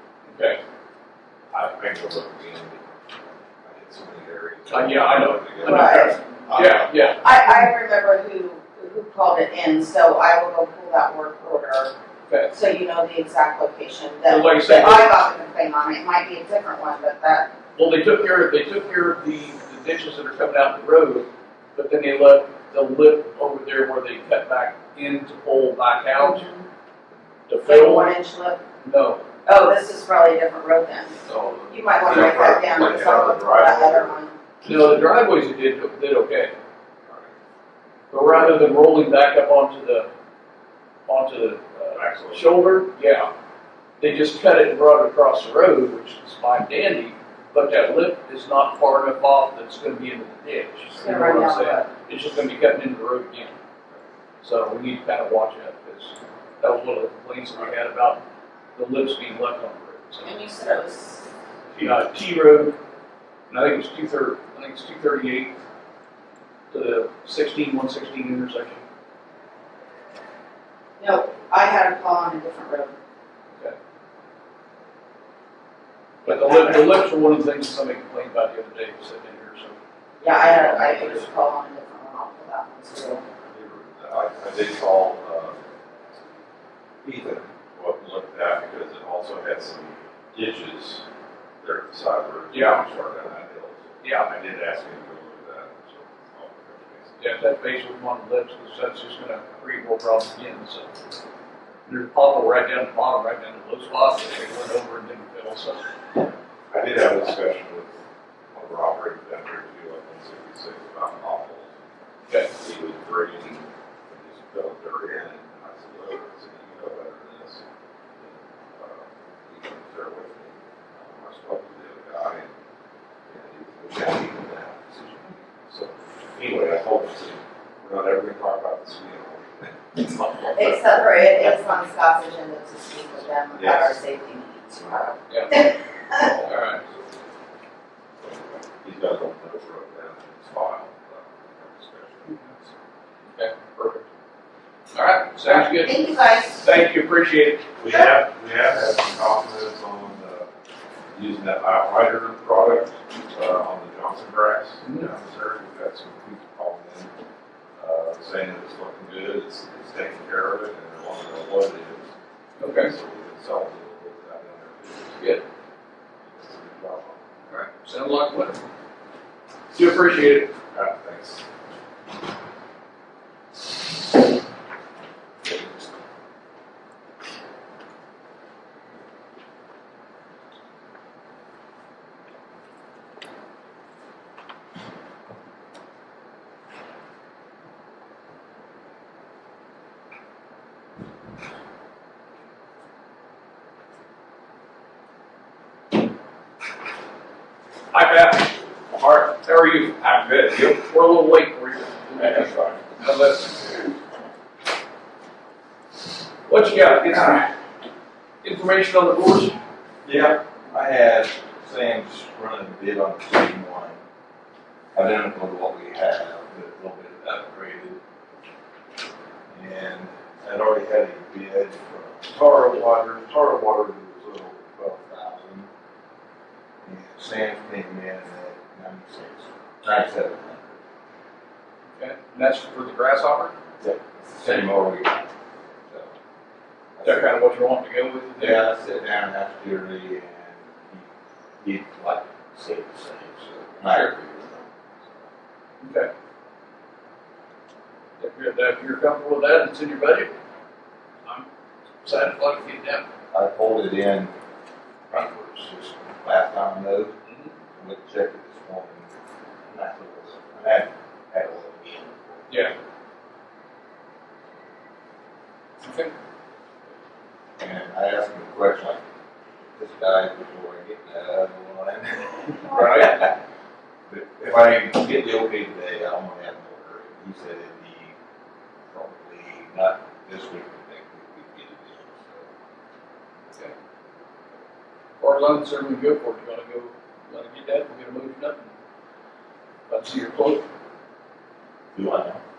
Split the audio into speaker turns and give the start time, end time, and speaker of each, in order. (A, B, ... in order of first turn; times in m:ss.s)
0:00.3-0:00.6 A
0:01.5-0:02.8 B
0:03.6-0:07.1 B
0:04.7-0:07.3 A
0:05.6-0:06.2 C
0:06.5-0:06.9 D
0:07.2-0:11.9 C
0:12.3-0:12.5 A
0:12.5-0:17.5 C
0:14.3-0:15.1 A
0:17.8-0:26.5 A
0:26.2-0:26.7 C
0:27.5-0:28.1 A
0:27.6-0:28.6 C
0:28.8-0:29.2 A
0:29.5-0:34.4 C
0:31.2-0:34.2 B
0:34.6-0:36.5 A
0:37.0-0:37.3 B
0:38.1-0:40.1 A
0:41.1-0:43.3 A
0:41.9-0:42.6 B
0:44.0-0:53.6 A
0:50.9-0:51.9 C
0:54.4-0:58.2 A
0:58.8-1:00.3 A
1:00.2-1:01.3 C
1:01.7-1:02.8 A
1:03.5-1:05.6 A
1:06.7-1:08.8 A
1:11.0-1:13.0 C
1:16.2-1:17.0 C
1:16.2-1:21.3 A
1:20.2-1:23.2 C
1:23.5-1:25.6 B
1:27.0-1:31.0 B
1:31.6-1:37.2 B
1:32.5-1:32.8 A
1:34.0-1:34.3 A
1:37.2-1:41.0 A
1:41.9-1:45.8 A
1:46.7-1:48.0 B
1:48.5-1:51.7 B
1:52.5-1:57.6 B
1:58.2-2:02.5 B
2:03.3-2:10.8 B
2:10.4-2:16.3 C
2:13.6-2:14.0 B
2:15.3-2:15.6 A
2:16.1-2:16.8 B
2:16.4-2:16.8 A
2:18.3-2:22.7 B
2:23.3-2:24.0 A
2:24.9-2:26.0 A
2:25.4-2:26.7 C
2:26.6-2:27.6 A
2:27.8-2:30.5 B
2:27.9-2:28.1 C
2:31.1-2:37.1 B
2:34.8-2:35.1 A
2:37.8-2:42.1 B
2:42.6-2:42.9 A
2:42.7-2:45.2 B
2:46.3-2:47.2 B
2:47.5-2:48.6 A
2:49.7-2:50.5 A
2:50.7-2:51.4 B
3:17.9-3:23.8 A
3:26.5-3:27.5 A
3:28.4-3:29.6 A
3:30.0-3:34.0 D
3:34.9-3:38.0 D
3:39.5-3:45.7 D
3:46.8-3:50.8 D
3:51.9-3:53.5 A
3:53.8-3:55.3 D
3:57.0-3:57.4 D
3:57.0-3:58.6 A
3:58.4-4:01.1 D
4:01.6-4:05.3 D
4:05.8-4:06.1 A
4:08.2-4:10.3 A
4:12.0-4:13.0 A
4:13.3-4:14.3 D
4:15.1-4:17.1 D
4:17.3-4:17.5 A
4:17.8-4:19.1 D
4:19.6-4:22.8 D
4:25.8-4:26.1 A
4:27.6-4:29.0 D
4:29.8-4:33.3 D
4:32.7-4:33.3 A
4:34.1-4:38.1 D
4:38.9-4:42.5 D
4:45.2-4:48.7 A
4:49.9-4:50.6 A
4:51.9-4:52.4 D